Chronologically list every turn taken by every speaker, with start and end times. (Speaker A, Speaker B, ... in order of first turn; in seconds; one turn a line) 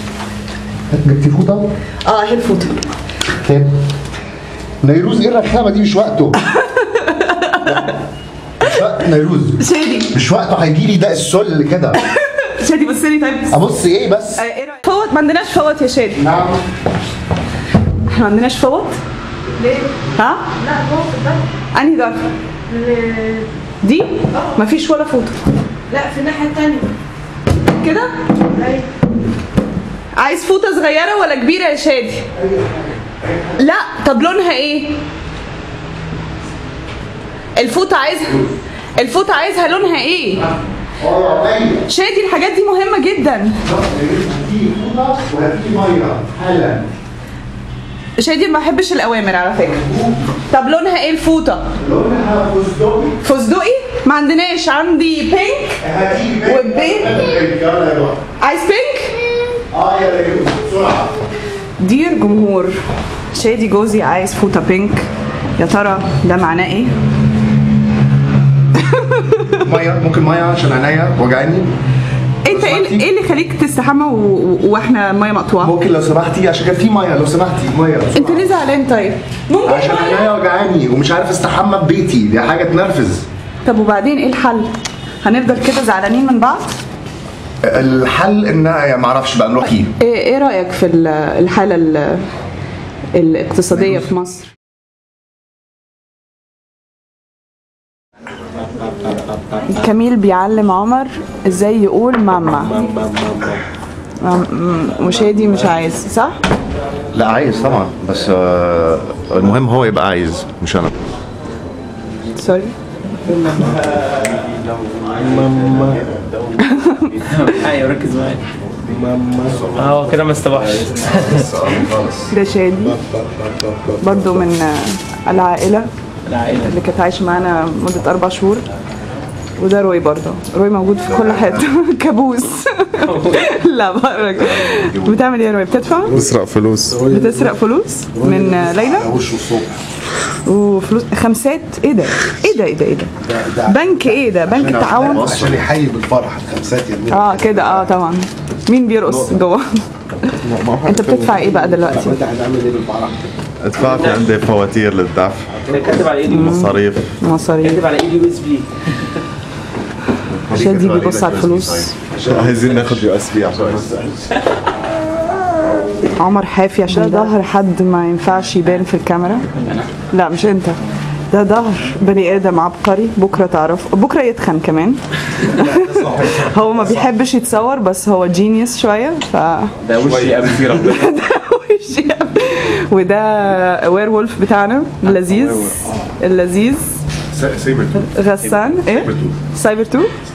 Speaker A: 0.9-1.7
Speaker B: 2.0-2.8
Speaker A: 3.4-3.7
Speaker A: 4.8-6.4
Speaker B: 6.5-7.9
Speaker A: 8.6-12.0
Speaker B: 9.6-10.1
Speaker B: 12.0-13.6
Speaker A: 13.5-14.4
Speaker B: 14.4-16.2
Speaker A: 16.1-16.6
Speaker B: 18.1-19.0
Speaker C: 19.6-20.0
Speaker B: 20.1-20.5
Speaker C: 20.6-21.4
Speaker B: 21.7-22.3
Speaker C: 22.7-23.5
Speaker B: 23.8-25.4
Speaker C: 25.9-26.9
Speaker B: 27.7-28.1
Speaker C: 28.6-28.9
Speaker B: 30.1-32.3
Speaker A: 32.4-33.6
Speaker B: 33.6-35.0
Speaker B: 37.5-40.5
Speaker A: 40.9-41.9
Speaker B: 41.9-43.6
Speaker A: 43.6-46.9
Speaker B: 48.2-49.8
Speaker A: 49.7-50.2
Speaker B: 50.5-51.7
Speaker A: 51.8-53.2
Speaker B: 53.2-55.8
Speaker A: 55.8-58.2
Speaker B: 56.4-57.3
Speaker B: 58.4-59.2
Speaker A: 59.7-61.2
Speaker B: 61.8-62.8
Speaker B: 63.3-66.9
Speaker B: 68.8-69.6
Speaker A: 69.5-71.7
Speaker B: 72.4-75.7
Speaker A: 72.5-73.1
Speaker A: 75.6-78.5
Speaker B: 78.1-80.3
Speaker A: 79.6-83.2
Speaker B: 83.6-84.7
Speaker B: 85.2-86.8
Speaker A: 87.6-89.9
Speaker B: 90.0-92.2
Speaker B: 93.1-94.5
Speaker D: 98.9-99.6
Speaker B: 99.7-102.8
Speaker D: 102.5-103.6
Speaker B: 104.2-106.4
Speaker D: 105.0-105.7
Speaker A: 107.1-110.9
Speaker B: 112.3-112.7
Speaker D: 113.5-114.4
Speaker D: 115.0-116.2
Speaker B: 116.6-117.1
Speaker E: 117.2-118.4
Speaker D: 118.8-120.0
Speaker E: 119.7-121.5
Speaker F: 121.0-122.1
Speaker A: 121.5-122.0
Speaker B: 122.3-123.0
Speaker D: 122.8-124.5
Speaker B: 124.0-125.9
Speaker E: 126.2-126.7
Speaker B: 126.6-128.6
Speaker B: 129.6-136.2
Speaker A: 131.1-131.7
Speaker E: 133.0-133.4
Speaker A: 134.3-135.2
Speaker D: 136.0-137.6
Speaker F: 136.1-137.0
Speaker B: 137.1-139.1
Speaker D: 138.1-139.8
Speaker B: 140.4-143.1
Speaker D: 143.2-147.9
Speaker B: 143.6-145.3
Speaker A: 144.5-145.7
Speaker B: 147.1-150.3
Speaker B: 150.8-152.2
Speaker D: 150.8-153.3
Speaker F: 153.6-155.6
Speaker E: 153.8-154.2
Speaker D: 155.6-156.1
Speaker E: 155.7-156.7
Speaker F: 156.2-157.1
Speaker B: 156.3-157.8
Speaker E: 157.6-158.8
Speaker A: 160.4-162.3
Speaker B: 160.5-161.9
Speaker F: 162.2-163.7
Speaker D: 162.2-163.0
Speaker D: 163.7-164.2
Speaker B: 166.2-169.5
Speaker E: 169.5-169.9
Speaker B: 170.1-170.8
Speaker B: 171.3-179.7
Speaker D: 175.6-176.5
Speaker E: 179.8-181.1
Speaker A: 180.0-180.5
Speaker B: 180.7-187.0
Speaker E: 185.0-185.9
Speaker A: 187.4-187.9
Speaker F: 187.4-187.7
Speaker B: 187.9-190.1
Speaker E: 188.4-189.0